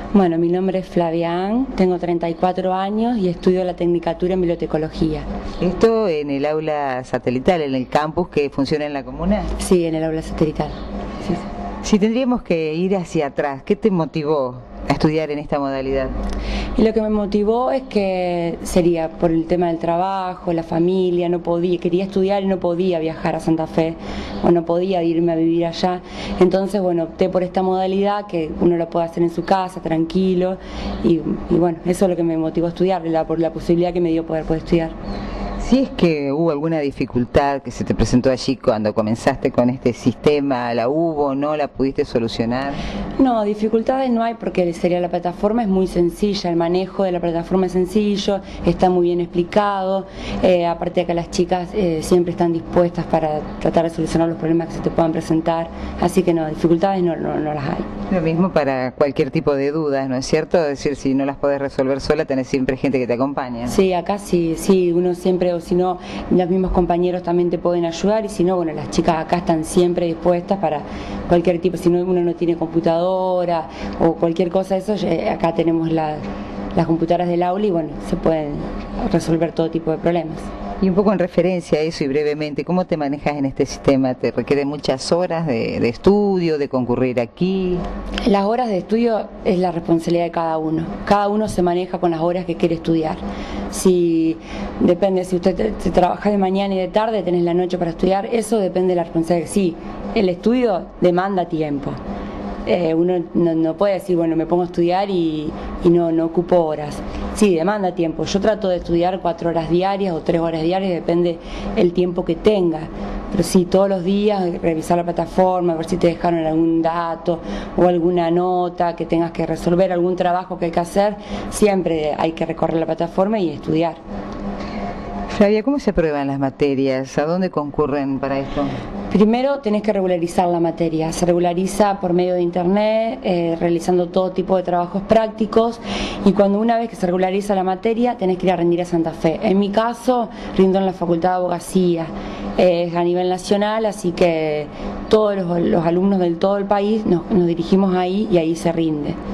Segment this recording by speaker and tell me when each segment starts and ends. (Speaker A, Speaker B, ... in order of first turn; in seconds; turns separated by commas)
Speaker A: 0.1-5.2, Speaker B: 5.6-9.5, Speaker A: 9.6-11.4, Speaker B: 11.8-16.1, Speaker A: 16.8-34.9, Speaker B: 35.6-42.8, Speaker A: 43.2-57.9, Speaker B: 58.1-63.8, Speaker A: 63.7-76.2, Speaker A: 76.8-80.5, Speaker B: 80.8-87.8, Speaker A: 88.2-102.0, Speaker A: 102.7-124.0, Speaker B: 125.3-128.7, Speaker A: 129.1-149.2